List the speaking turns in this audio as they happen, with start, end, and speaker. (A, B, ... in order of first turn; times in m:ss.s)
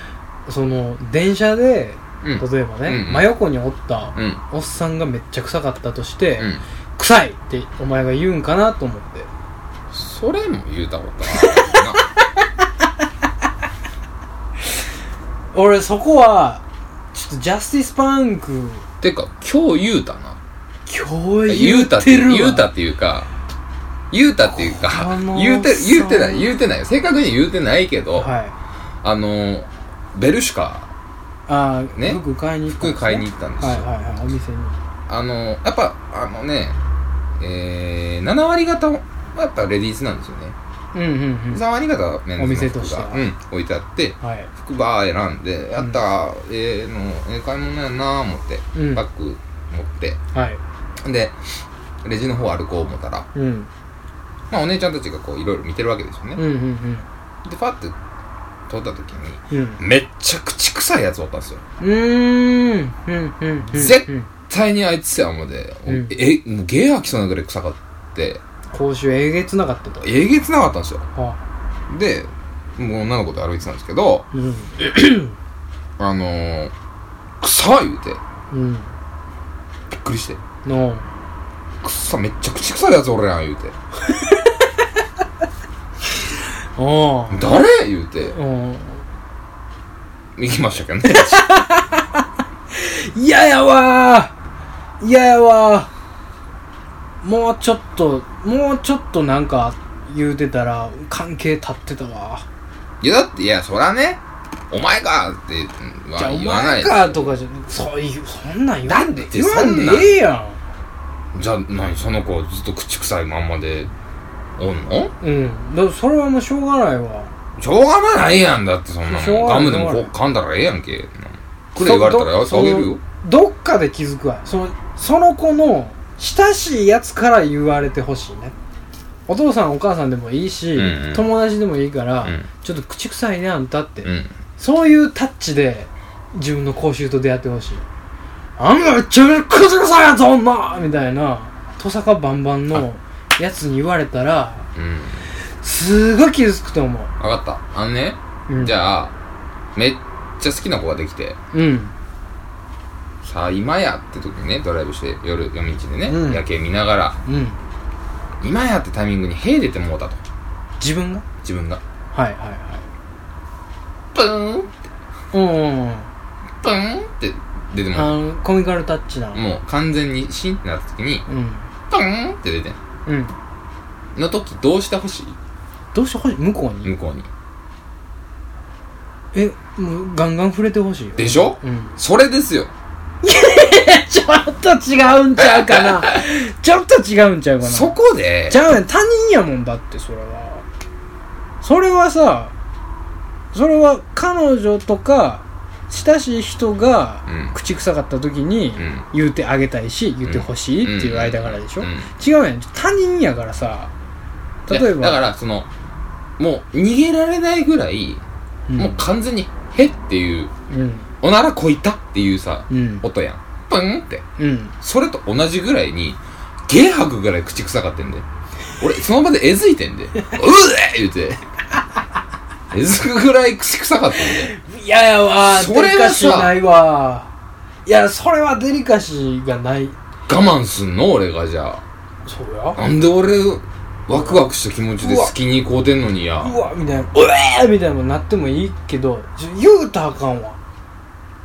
0:00.5-0:09.3 A
0:02.2-0:03.3 B
0:04.1-0:04.4 B
0:06.4-0:06.6 B
0:09.9-0:12.0 B
0:11.4-0:11.7 A
0:15.5-0:18.8 A
0:19.0-0:20.4 B
0:20.9-0:22.7 A
0:21.5-0:23.3 B
0:24.1-0:28.3 B
0:24.4-0:26.5 A
0:28.2-0:28.5 A
0:29.0-0:30.9 B
0:31.5-0:34.8 A
0:32.0-0:33.8 B
0:35.1-0:36.8 B
0:37.4-0:40.6 B
0:40.9-0:41.6 A
0:41.5-0:50.2 B
0:42.4-0:43.2 A
0:44.2-0:44.5 A
0:48.7-0:49.0 A
0:50.3-0:50.6 A
0:51.0-0:51.4 B
0:52.0-0:53.3 B
0:53.3-0:53.7 A
0:54.5-0:56.4 B
0:56.4-0:57.1 A
0:57.4-0:58.0 B
0:58.7-1:01.6 B
0:59.5-0:59.8 A
1:01.8-1:04.3 A
1:03.7-1:08.4 B
1:05.8-1:06.1 A
1:08.7-1:10.1 A
1:10.0-1:11.1 B
1:11.9-1:14.3 B
1:14.3-1:15.3 A
1:16.0-1:16.7 B
1:17.4-1:18.2 B
1:18.5-1:18.9 A
1:19.9-1:20.4 B
1:20.6-1:21.0 A
1:21.8-1:23.7 B
1:24.0-1:24.6 A
1:26.8-1:27.5 A
1:27.3-1:28.4 B
1:28.3-1:29.0 A
1:30.4-1:31.4 B
1:31.0-1:32.2 A
1:32.7-1:34.3 A
1:35.0-1:35.9 A
1:37.2-1:42.4 A
1:43.0-1:47.3 B
1:46.2-1:50.6 A
1:48.8-1:50.2 B
1:51.3-1:53.9 B
1:54.6-1:55.1 B
1:55.2-1:57.3 A
1:57.6-2:03.0 B
1:59.1-2:00.1 A
2:01.8-2:08.5 A
2:09.3-2:17.8 A
2:10.7-2:11.3 B
2:14.0-2:14.4 B
2:18.6-2:24.7 A
2:24.7-2:25.2 B
2:25.6-2:27.1 A
2:27.2-2:29.1 B
2:28.5-2:28.8 A
2:29.7-2:31.4 B
2:31.5-2:31.9 A
2:33.2-2:37.2 B
2:36.0-2:36.4 A
2:37.2-2:37.6 A
2:38.4-2:40.2 B
2:40.8-2:41.2 A
2:41.4-2:41.8 B
2:42.1-2:42.8 A
2:44.1-2:44.8 B
2:45.3-2:46.1 A
2:46.6-2:48.2 B
2:47.9-2:49.4 A
2:49.3-2:51.2 B
2:51.3-2:51.6 A
2:51.9-2:52.8 B
2:53.0-2:53.3 A
2:54.1-2:55.4 B
2:55.9-2:56.9 A
2:56.8-2:57.3 B
2:59.3-3:01.9 A
3:01.2-3:02.7 B
3:03.2-3:07.9 A
3:05.4-3:06.1 B
3:07.6-3:08.6 B
3:08.5-3:10.6 A
3:11.6-3:12.5 A
3:13.5-3:23.9 A
3:17.3-3:17.5 B
3:18.8-3:19.0 B
3:20.2-3:22.1 B
3:24.6-3:25.2 A
3:24.7-3:25.7 B
3:26.4-3:28.2 B
3:28.7-3:29.0 A
3:28.8-3:30.5 B
3:30.7-3:31.1 A
3:31.2-3:34.2 B
3:32.7-3:33.0 A
3:34.4-3:34.7 A
3:34.8-3:38.2 B
3:38.8-3:41.4 B
3:42.7-3:44.5 B
3:44.2-3:47.3 A
3:45.4-3:46.6 B
3:47.8-3:50.0 A
3:50.3-3:51.8 B
3:52.2-3:52.8 A
3:52.7-3:56.6 B
3:55.0-3:55.3 A
3:56.4-4:00.6 A